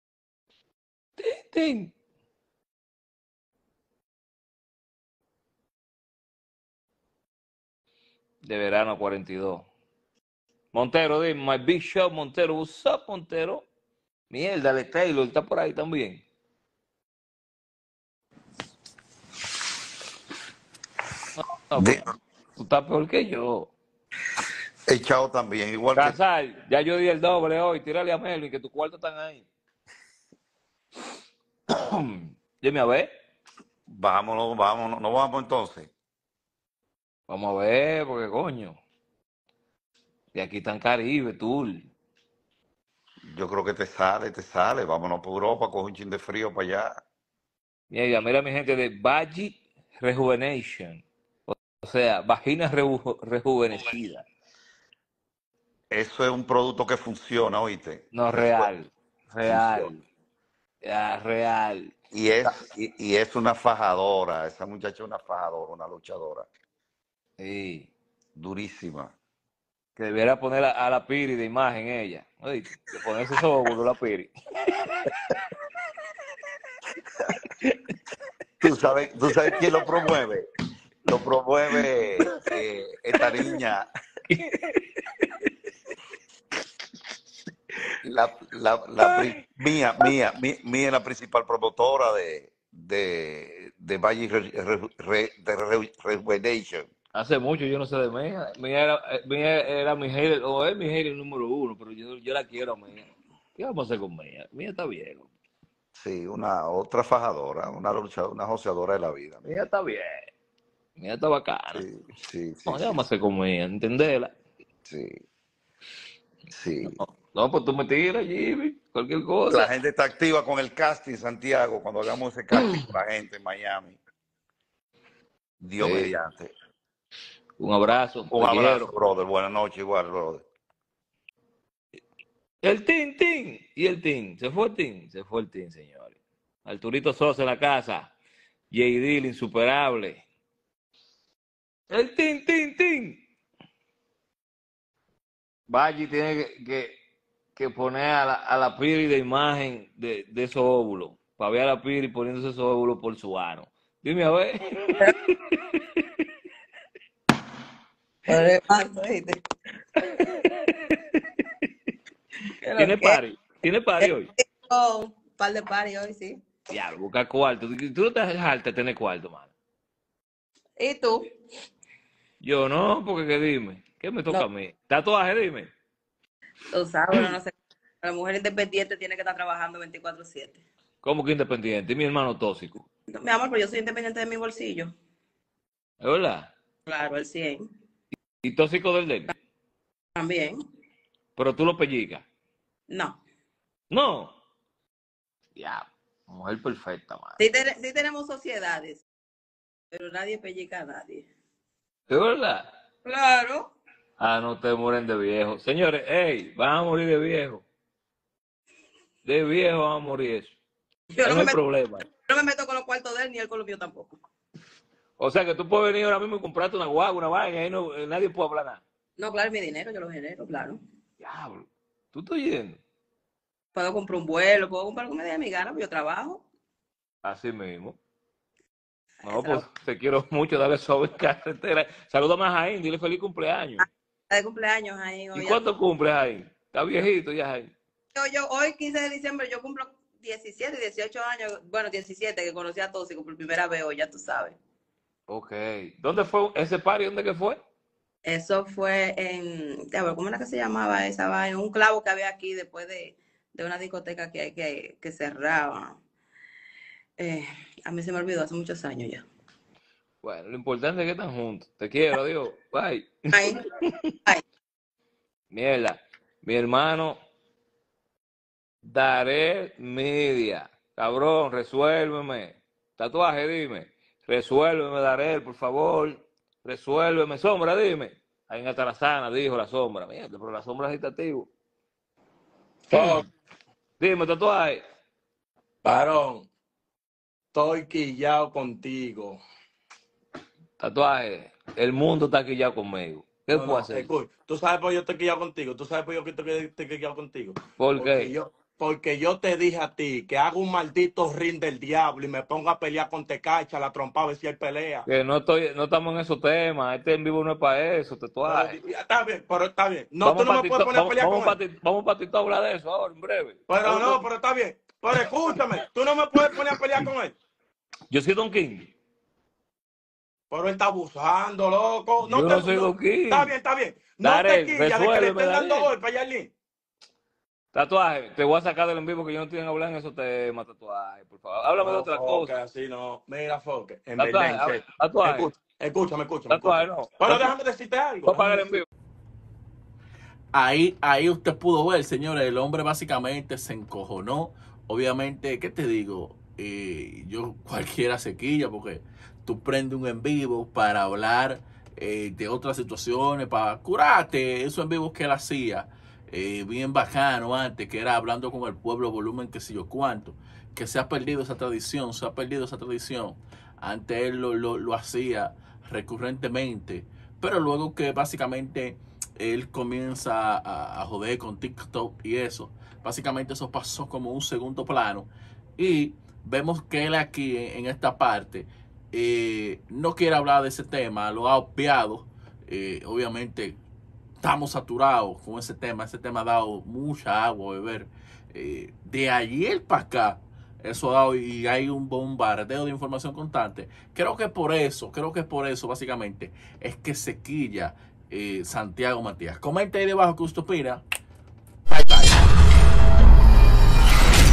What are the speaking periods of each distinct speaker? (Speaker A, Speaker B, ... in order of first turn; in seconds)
Speaker A: 1.2-1.9, 8.4-9.7, 10.7-13.7, 14.3-16.2, 21.4-23.7, 26.0-29.4, 31.7-33.1, 37.3-38.8, 40.4-41.9, 47.9-54.3, 58.1-60.0, 60.8-61.9, 67.4-67.9, 70.0-74.3, 77.6-77.9, 84.3-85.4, 89.0-89.4, 97.1-105.3, 109.5-110.3, 111.0-111.8, 112.7-114.3, 116.8-119.7, 125.8-126.2, 127.6-128.9, 132.6-138.1, 138.7-140.2, 141.9-143.2, 145.7-146.9, 147.6-155.1, 160.2-161.0, 162.8-164.3, 166.7-169.5, 172.4-175.7, 181.0-182.9, 186.0-186.5, 188.4-189.3, 191.4-192.2, 193.9-194.3, 195.6-197.4, 202.1-202.7, 204.2-207.6, 209.2-210.6, 211.2-212.1, 215.2-218.8, 221.2-222.8, 227.2-228.0, 229.2-233.8, 235.3-237.7, 245.3-247.6, 260.2-264.2, 265.5-267.2, 268.8-281.5, 282.9-283.2, 284.0-284.8, 290.8-294.1, 297.8-298.3, 305.1-308.8, 310.2-314.2, 318.1-318.9, 322.2-323.5, 324.2-325.9, 327.7-332.5, 334.2-335.5, 336.5-337.5, 338.2-338.9
Speaker B: 21.7-22.1, 24.9-26.2, 33.9-35.9, 43.2-47.0, 55.9-58.7, 59.4-60.0, 62.1-66.5, 68.3-69.1, 78.6-80.5, 81.0-83.9, 88.0-96.9, 106.0-109.5, 111.7-113.0, 114.8-115.2, 116.5-117.0, 119.5-124.0, 125.6-126.5, 128.3-130.4
Speaker C: 158.3-159.4, 162.6-163.2, 164.0-166.4, 170.8-171.3, 176.7-180.6, 183.1-184.9, 186.9-187.7, 190.2-190.6, 192.9-193.2, 197.4-199.0, 199.9-201.3, 203.1-203.7, 211.1-211.6, 212.2-214.2, 219.2-220.8, 223.8-226.4, 229.3-229.6, 233.8-235.6, 238.2-244.6, 248.3-256.0, 257.2-259.2, 263.3-263.6
Speaker D: 282.9-283.2, 285.8-286.5, 287.5-289.4, 293.5-305.1, 308.5-311.6, 313.7-317.4, 320.5-326.5, 331.8-338.6
Speaker E: 340.5-383.8, 384.4-401.0, 401.9-402.4